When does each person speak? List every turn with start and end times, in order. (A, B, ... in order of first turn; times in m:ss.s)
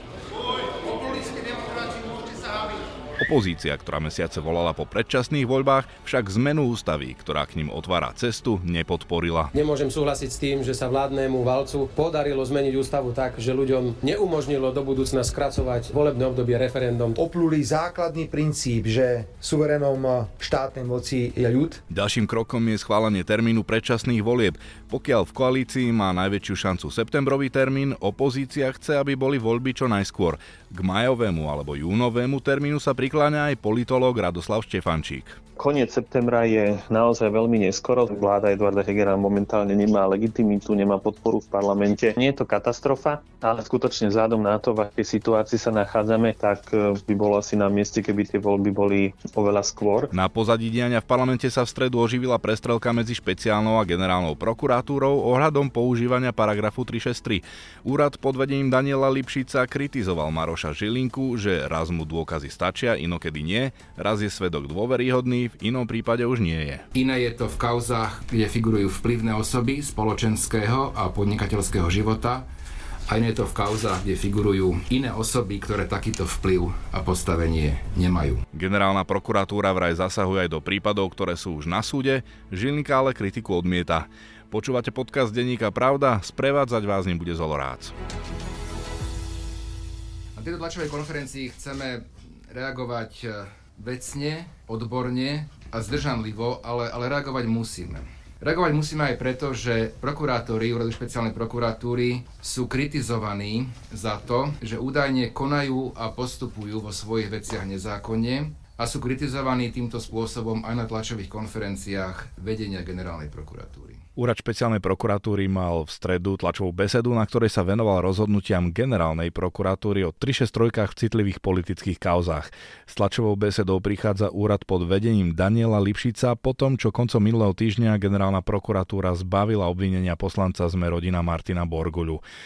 0:00.8-0:02.7 A
0:03.2-0:09.5 B
0:09.5-0:17.1 C
0:17.2-0:21.8 A
0:21.9-0:35.4 B
0:35.6-0:50.1 D
0:50.1-1:06.9 B
1:07.0-1:12.5 E
1:13.1-1:18.4 E
1:18.5-1:27.9 B
1:30.4-1:54.0 E
1:54.2-2:12.2 B